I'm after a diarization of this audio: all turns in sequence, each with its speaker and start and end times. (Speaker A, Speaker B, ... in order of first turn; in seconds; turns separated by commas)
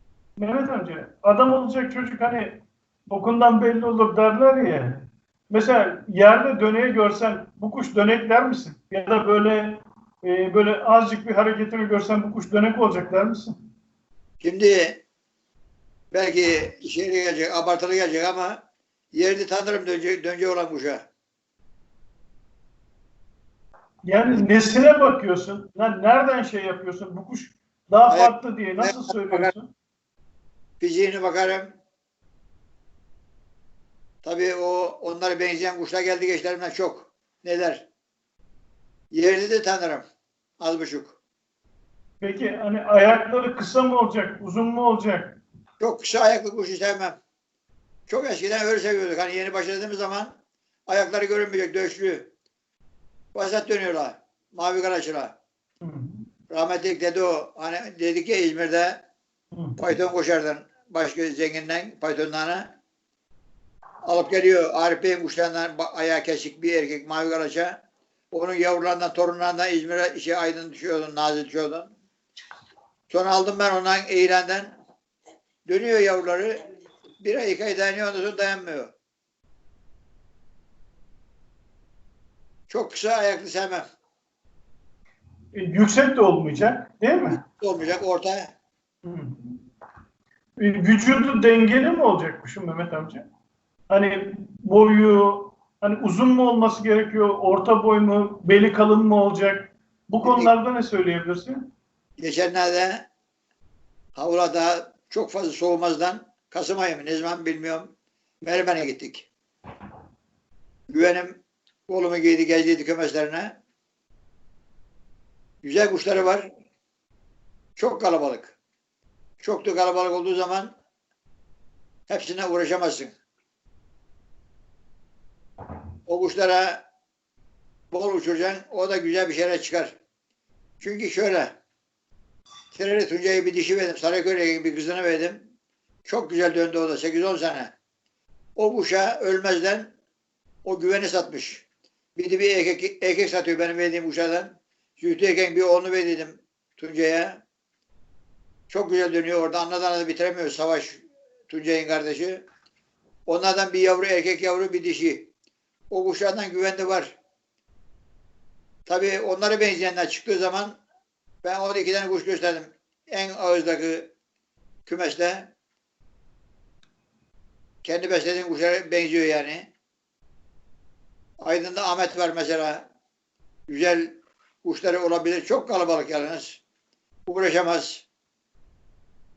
Speaker A: 0.4-13.5, Speaker B: 14.4-15.0, Speaker B: 16.1-18.6, Speaker B: 19.1-21.1, Speaker A: 24.0-29.7, Speaker B: 28.1-29.5, Speaker B: 30.8-31.7, Speaker B: 34.2-37.9, Speaker B: 39.1-40.0, Speaker B: 40.6-41.2, Speaker A: 42.2-45.4, Speaker B: 45.8-47.2, Speaker B: 48.1-50.3, Speaker B: 50.9-52.3, Speaker B: 53.3-55.3, Speaker A: 55.8-56.2, Speaker B: 56.5-59.0, Speaker A: 59.5-59.8, Speaker B: 59.8-62.7, Speaker B: 64.0-67.8, Speaker B: 68.3-71.9, Speaker B: 73.1-74.7, Speaker B: 75.7-76.6, Speaker B: 77.2-78.9, Speaker B: 82.7-83.8, Speaker A: 85.5-87.4, Speaker B: 87.4-88.5, Speaker A: 89.0-89.6, Speaker A: 90.6-93.2, Speaker A: 93.9-101.6, Speaker B: 100.2-100.5, Speaker B: 102.2-103.1, Speaker B: 104.2-107.9, Speaker B: 108.5-109.3, Speaker B: 110.9-111.4, Speaker B: 111.9-113.6, Speaker B: 115.6-116.5, Speaker B: 117.8-118.5, Speaker B: 119.4-120.7, Speaker B: 122.1-123.1, Speaker B: 126.1-126.8, Speaker B: 127.9-129.9, Speaker B: 130.8-131.6, Speaker B: 132.7-135.5, Speaker B: 136.1-137.7, Speaker B: 138.6-139.9, Speaker B: 140.7-141.7, Speaker B: 142.2-147.4, Speaker B: 148.7-152.4, Speaker B: 153.3-155.3, Speaker B: 155.9-157.2, Speaker B: 158.9-160.8, Speaker B: 161.4-164.1, Speaker B: 164.9-165.5, Speaker B: 167.8-169.7, Speaker B: 171.4-172.8, Speaker B: 173.7-176.6, Speaker B: 177.3-178.1